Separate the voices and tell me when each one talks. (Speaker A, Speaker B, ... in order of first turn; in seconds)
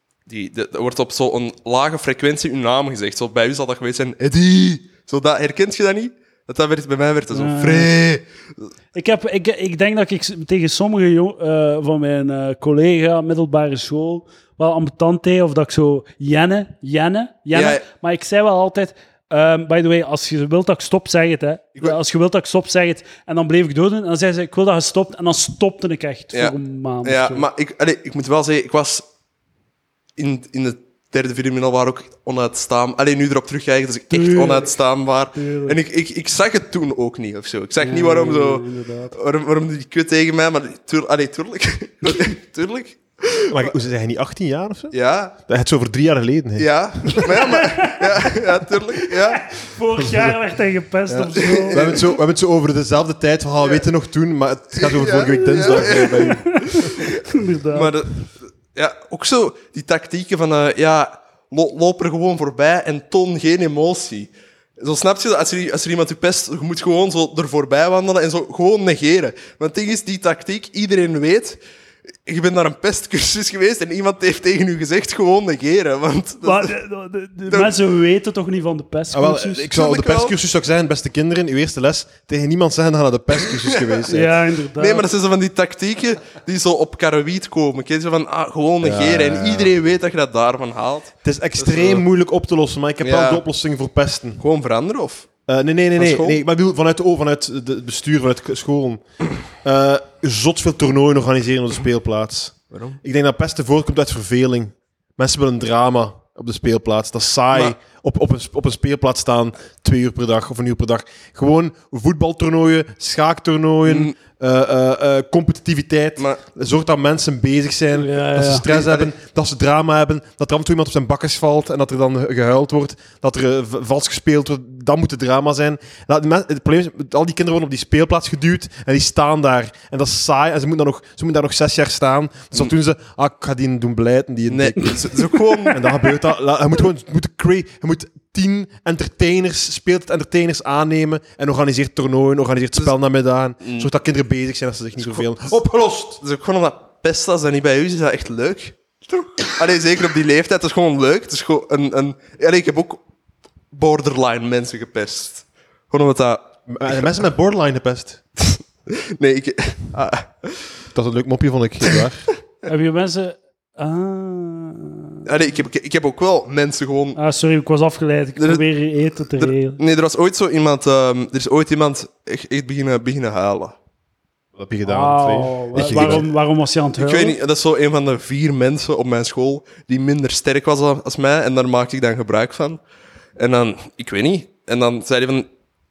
Speaker A: 0.3-8.2, 17.5-17.8, 26.3-29.0, 30.2-43.7, 44.9-45.3, 46.6-49.5, 51.4-52.1, 54.8-58.2, 58.7-71.6, 72.2-76.7, 77.5-77.7, 79.7-80.3, 83.4-92.0, 93.0-93.4, 94.4-95.3, 96.0-96.4, 102.7-103.0, 113.8-114.1, 118.7-119.1, 134.5-135.8, 143.6-143.9, 145.0-145.3, 146.2-153.0, 153.7-157.0, 158.4-160.8, 165.2-167.2, 168.4-168.6, 169.4-173.7, 175.8-176.2, 177.0-182.8, 183.4-185.5
Speaker B: 7.3-7.9, 8.9-27.4, 34.1-34.7, 35.3-35.8, 37.8-39.1, 47.2-48.4, 48.9-51.8, 55.8-57.9, 76.4-79.7, 84.1-85.0, 117.9-118.7, 162.7-165.2, 167.2-169.8, 174.8-177.3
Speaker C: 43.5-47.3, 50.0-50.4, 51.1-56.9, 79.1-84.3, 88.8-89.7, 91.2-94.4, 95.5-99.0, 99.6-146.2, 156.7-158.2, 160.9-162.3, 174.6-176.2